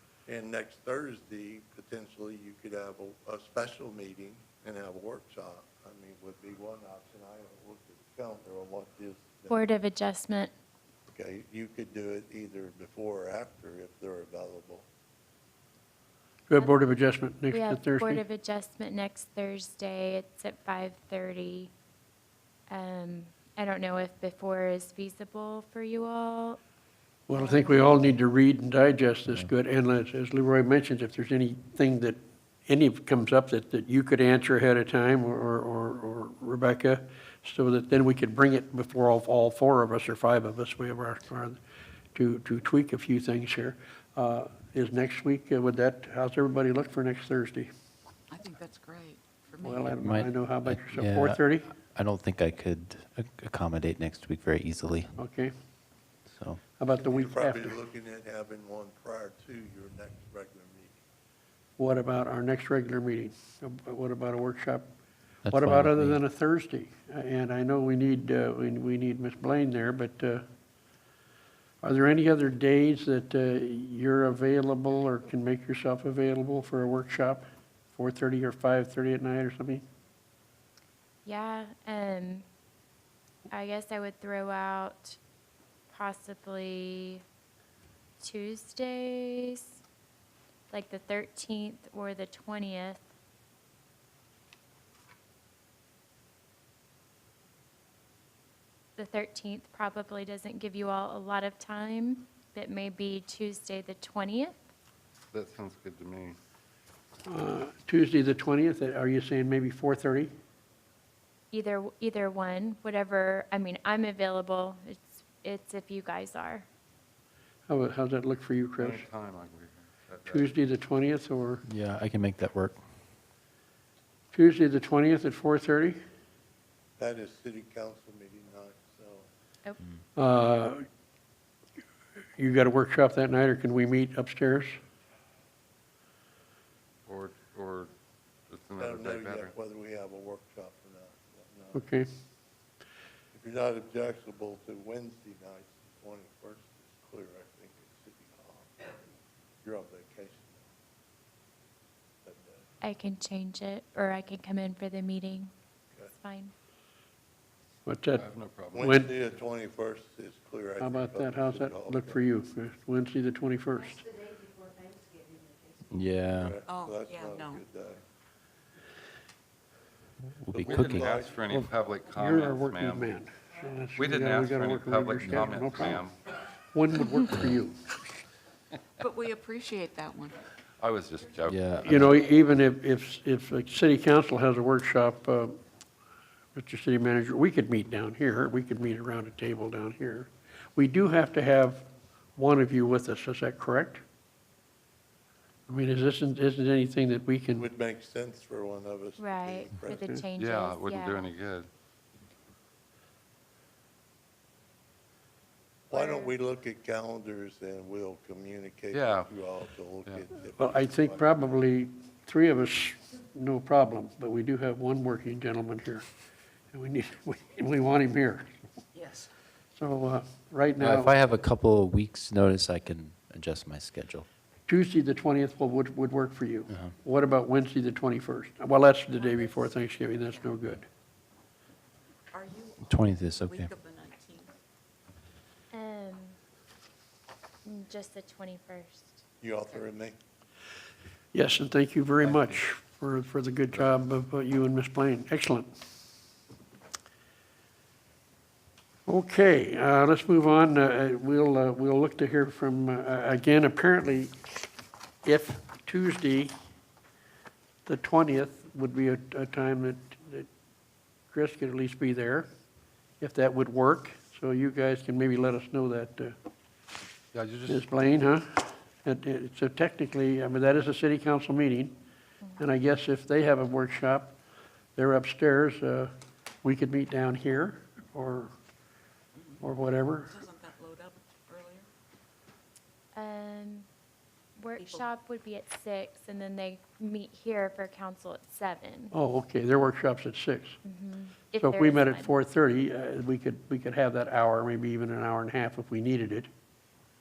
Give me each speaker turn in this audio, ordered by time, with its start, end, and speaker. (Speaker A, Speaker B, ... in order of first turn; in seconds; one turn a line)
Speaker A: 0.3-9.6
Speaker B: 9.5-10.5
Speaker A: 11.1-14.8
Speaker C: 16.5-18.2
Speaker B: 17.5-21.7
Speaker B: 22.7-26.6
Speaker C: 27.3-41.6
Speaker B: 27.3-27.9
Speaker C: 42.1-47.7
Speaker D: 48.3-50.0
Speaker C: 49.6-51.7
Speaker E: 49.9-55.1
Speaker C: 55.2-55.5
Speaker E: 56.3-56.6
Speaker C: 56.8-57.8
Speaker A: 57.0-61.0
Speaker C: 61.8-64.9
Speaker E: 65.4-66.2
Speaker C: 65.5-70.4
Speaker C: 71.8-79.8
Speaker B: 81.2-82.5
Speaker B: 83.5-85.2
Speaker B: 85.9-87.2
Speaker B: 88.2-89.8
Speaker B: 90.7-93.0
Speaker B: 99.0-104.5
Speaker F: 105.3-106.4
Speaker C: 107.2-110.3
Speaker B: 111.5-116.7
Speaker C: 117.7-119.0
Speaker F: 118.8-120.5
Speaker C: 120.2-121.6
Speaker E: 121.6-122.8
Speaker C: 124.3-126.0
Speaker A: 127.0-129.3
Speaker C: 130.2-130.8
Speaker C: 132.4-134.8
Speaker F: 137.1-137.9
Speaker F: 138.5-139.5
Speaker A: 138.8-141.9
Speaker C: 141.7-142.1
Speaker A: 143.3-149.0
Speaker A: 149.6-150.7
Speaker A: 152.2-152.6
Speaker B: 152.8-155.5
Speaker B: 156.1-156.5
Speaker C: 157.8-158.2
Speaker F: 158.2-158.9
Speaker A: 158.7-162.2
Speaker C: 158.7-159.1
Speaker C: 160.8-164.1
Speaker E: 165.9-166.6
Speaker A: 166.4-168.0
Speaker D: 166.7-167.6
Speaker E: 170.3-171.2
Speaker A: 170.5-171.4
Speaker F: 170.6-173.1
Speaker C: 171.5-176.1
Speaker F: 174.0-176.2
Speaker C: 176.7-178.0
Speaker D: 179.0-180.4
Speaker F: 180.8-181.8
Speaker E: 181.5-182.1
Speaker C: 181.8-185.6
Speaker C: 186.5-194.0
Speaker C: 195.7-197.7
Speaker A: 197.6-200.0
Speaker B: 199.2-201.3
Speaker C: 199.9-200.2
Speaker F: 200.3-201.7
Speaker A: 205.9-211.5
Speaker B: 205.9-206.3
Speaker F: 208.9-209.3
Speaker C: 210.6-216.1
Speaker C: 216.7-218.5
Speaker D: 218.9-219.3
Speaker C: 219.7-221.2
Speaker E: 220.8-224.2
Speaker C: 224.7-230.9
Speaker E: 226.7-226.9
Speaker D: 229.2-230.2
Speaker D: 232.3-234.5
Speaker E: 232.8-233.7
Speaker B: 235.7-236.4
Speaker B: 237.6-239.1
Speaker A: 239.4-240.2
Speaker C: 241.3-245.7
Speaker F: 242.2-242.6
Speaker C: 249.1-254.7
Speaker C: 255.2-256.5
Speaker C: 257.8-260.5
Speaker C: 261.3-262.5
Speaker C: 263.2-266.4
Speaker F: 267.3-267.9
Speaker C: 267.7-271.9
Speaker C: 272.6-274.4
Speaker C: 274.9-276.1
Speaker C: 276.6-278.5
Speaker C: 279.6-280.3
Speaker D: 280.3-281.9
Speaker B: 283.1-283.9
Speaker B: 284.6-289.1
Speaker D: 284.8-285.1
Speaker C: 289.1-290.8
Speaker B: 290.8-292.3
Speaker C: 291.6-296.5